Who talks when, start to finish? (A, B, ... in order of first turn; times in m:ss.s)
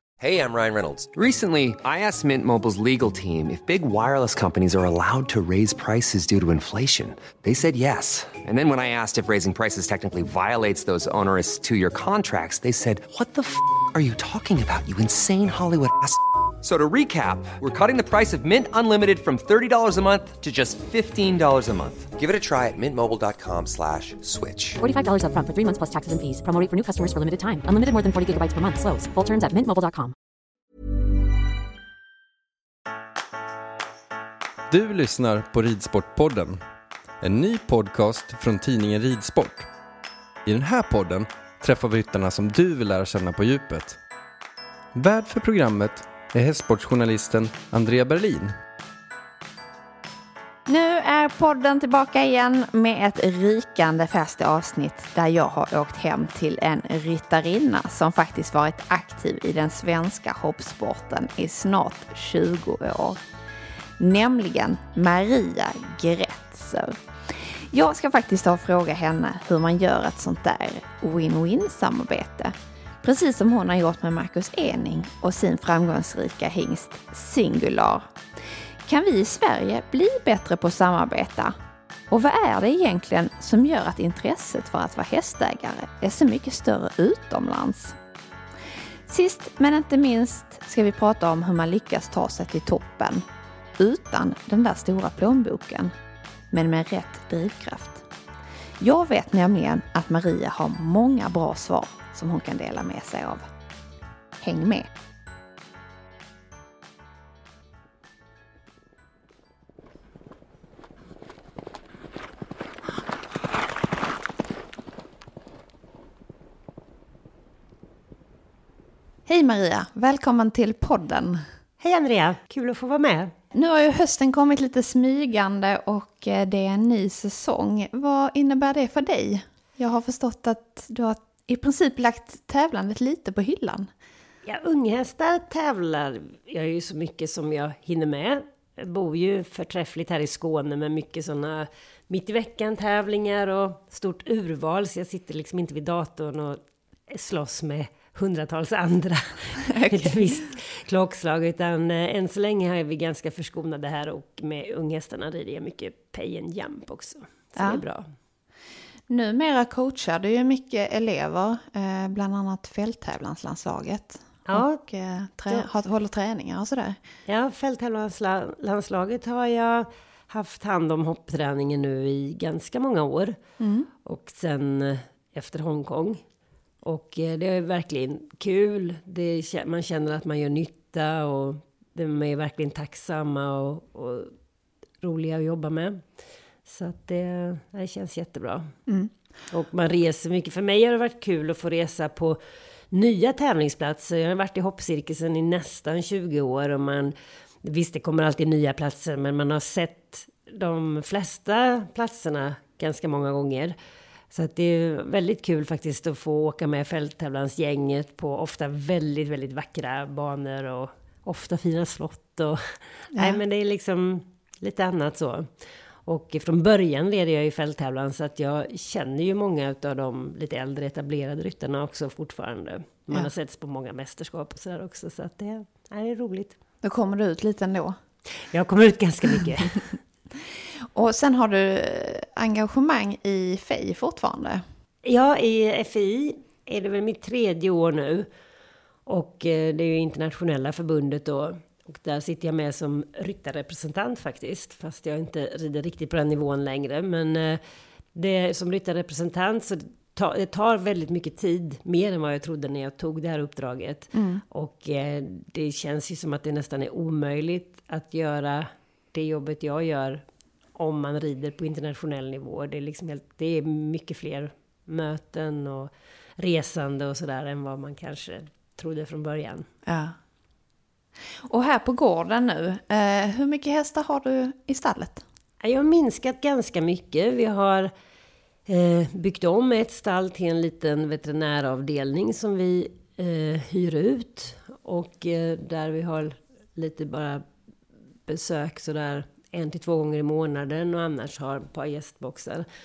0:00.2-0:24.8 A
0:24.8-0:30.1 B
0:34.7-0:36.6 C
0:37.2-0:39.7 C
0:40.4-0:44.0 C
0:44.9-0:48.5 C
0:50.7-1:03.2 D
1:04.0-1:18.1 D
1:18.8-1:21.5 D
1:22.1-1:28.0 D
1:29.1-1:33.2 D
1:33.8-1:35.9 D
1:36.5-1:38.1 D
1:38.8-1:43.5 D
1:44.4-1:44.9 D
1:59.2-2:01.4 D
2:01.8-2:03.3 E
2:03.5-2:13.9 D
2:14.4-2:38.0 E
2:29.7-2:30.4 D
2:37.6-2:37.8 D
2:39.1-2:47.0 D
2:44.5-2:44.8 E
2:47.3-2:53.4 E
2:53.6-2:53.9 D
2:54.0-2:56.2 E
2:56.8-3:04.3 E
3:05.0-3:06.0 E
3:06.6-3:08.7 E
3:08.9-3:09.1 D
3:09.5-3:12.4 E
3:12.9-3:23.7 E
3:24.3-3:35.5 E
3:36.0-3:46.5 E
3:46.8-3:48.0 D
3:48.5-3:50.0 E
3:50.9-3:54.6 D
3:55.0-3:58.3 E
3:59.0-4:07.6 E
4:08.1-4:20.2 E
4:14.1-4:14.4 D
4:20.7-4:29.7 E
4:29.8-4:30.2 D
4:31.4-4:35.2 D
4:35.6-4:37.9 E
4:38.7-4:47.4 E
4:48.3-4:52.6 E